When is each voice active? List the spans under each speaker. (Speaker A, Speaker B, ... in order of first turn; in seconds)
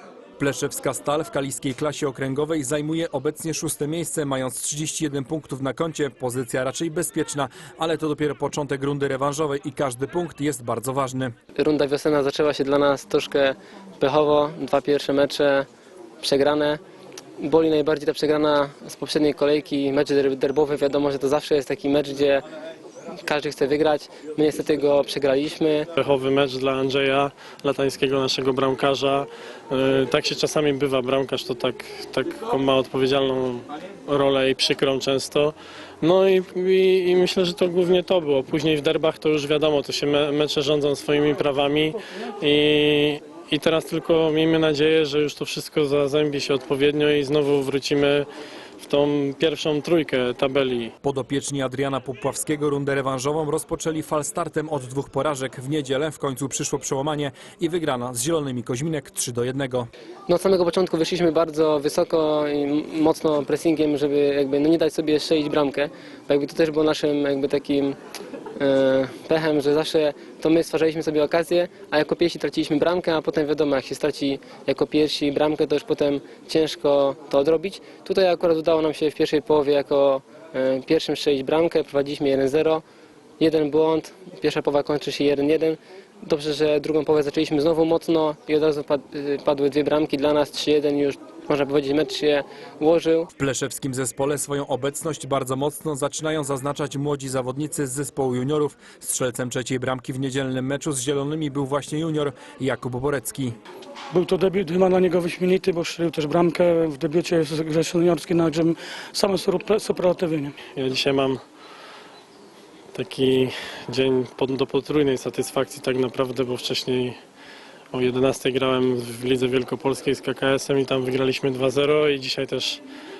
Speaker A: 0.4-11.3, 51.0-59.9, 93.3-103.5
Speaker B: 11.6-15.7, 16.2-16.8, 17.4-22.4, 23.2-25.9, 60.3-68.0, 68.6-82.8, 83.4-93.3
Speaker C: 25.9-48.3, 48.8-50.9, 110.7-111.4, 112.9-117.2, 117.9-122.8
Speaker D: 104.1-110.5